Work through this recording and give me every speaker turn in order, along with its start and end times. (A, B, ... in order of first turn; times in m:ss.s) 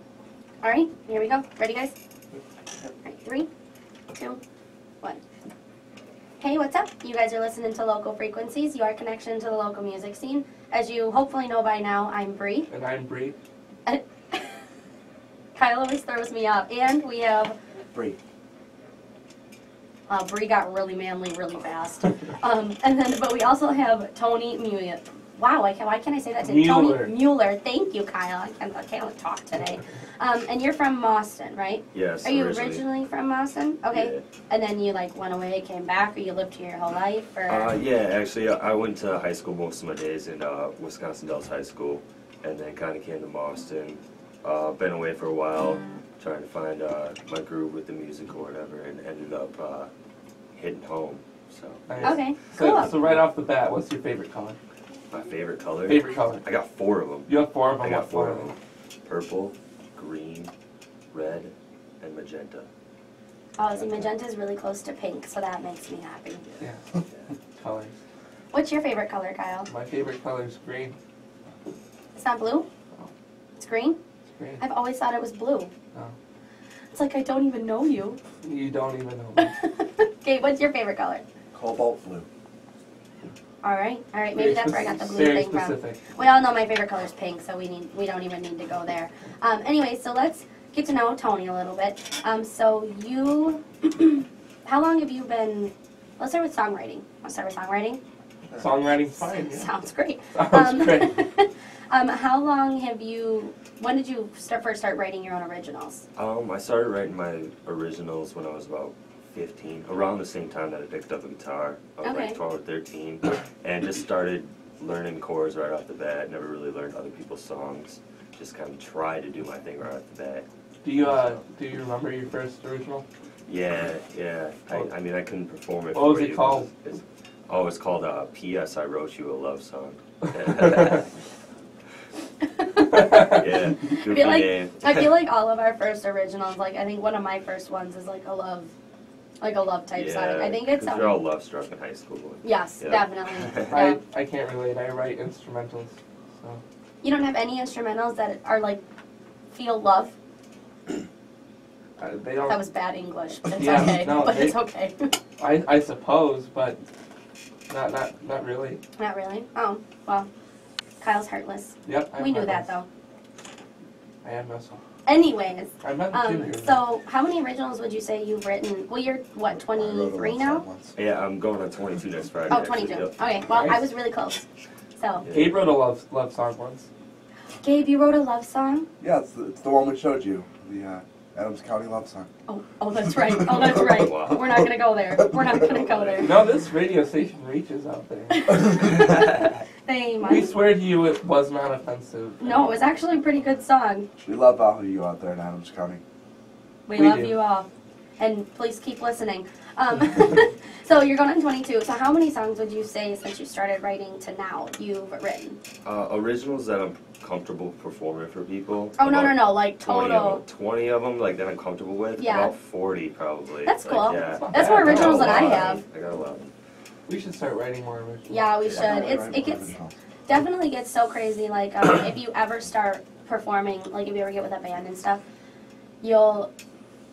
0:00.6-0:01.9 A
0:03.0-0:03.5 A
0:04.1-0:04.4 A
0:06.4-0:12.7 A
0:12.7-0:13.4 B
0:13.9-0:14.6 A
0:15.6-0:17.6 A
0:17.9-0:18.2 C
0:20.1-0:37.7 A
0:26.4-0:27.1 B
0:31.9-0:32.8 D
0:33.9-0:34.2 D
0:37.5-0:49.9 D
0:50.5-0:52.2 D
0:51.9-0:54.6 B
0:52.0-0:52.9 A
0:55.1-1:00.5 D
0:55.9-0:56.4 B
0:57.3-0:58.5 B
1:01.1-1:02.7 D
1:03.6-1:06.4 A
1:03.8-1:04.1 D
1:06.4-1:07.3 D
1:06.6-1:06.8 B
1:07.6-1:07.9 B
1:08.5-1:09.7 A
1:09.7-1:11.0 B
1:12.2-1:12.7 A
1:13.6-1:14.0 A
1:14.4-1:14.6 B
1:14.6-1:15.7 A
1:16.9-1:18.2 A
1:18.4-1:19.5 B
1:19.4-1:21.2 A
1:21.5-1:22.3 C
1:23.6-1:38.0 A
1:24.4-1:26.1 B
1:38.6-1:39.7 B
1:39.5-1:46.0 A
1:40.3-1:41.2 B
1:46.2-2:00.5 D
1:52.0-1:52.4 A
2:00.8-2:03.1 B
2:03.5-2:11.1 D
2:05.9-2:06.7 B
2:10.5-2:11.0 B
2:12.6-2:18.7 A
2:13.1-2:15.1 D
2:19.4-2:21.2 A
2:19.9-2:23.8 D
2:22.4-2:24.0 A
2:23.7-2:26.6 B
2:27.0-2:28.8 A
2:29.5-2:30.2 A
2:32.0-2:32.6 B
2:32.5-2:35.2 A
2:33.6-2:34.6 B
2:35.4-2:36.8 B
2:37.7-2:38.8 B
2:39.0-2:40.3 A
2:41.0-2:42.9 A
2:41.8-2:42.7 B
2:44.2-2:44.8 B
2:45.1-2:50.6 A
2:45.8-2:46.8 B
2:49.6-2:51.0 C
2:51.0-2:53.1 D
2:52.5-2:54.4 A
2:53.5-2:53.8 B
2:55.0-2:55.3 A
2:55.2-2:55.7 D
2:55.3-2:56.9 B
2:57.6-2:58.9 A
2:59.0-3:02.3 C
3:02.5-3:06.3 A
3:03.2-3:04.0 C
3:03.7-3:04.6 D
3:05.2-3:05.6 C
3:05.6-3:06.4 D
3:06.2-3:08.7 B
3:08.3-3:09.3 A
3:08.8-3:09.5 D
3:09.9-3:10.5 A
3:10.2-3:12.4 B
3:12.4-3:14.1 A
3:12.4-3:12.9 D
3:14.2-3:16.0 C
3:16.9-3:17.7 A
3:17.0-3:17.4 B
3:18.2-3:25.6 A
3:25.8-3:36.5 D
3:29.0-3:30.4 A
3:32.2-3:32.5 A
3:33.7-3:35.8 A
3:34.2-3:35.7 B
3:37.1-3:38.5 B
3:38.3-3:39.7 A
3:38.7-3:39.9 C
3:40.3-3:45.2 A
3:46.0-3:46.5 A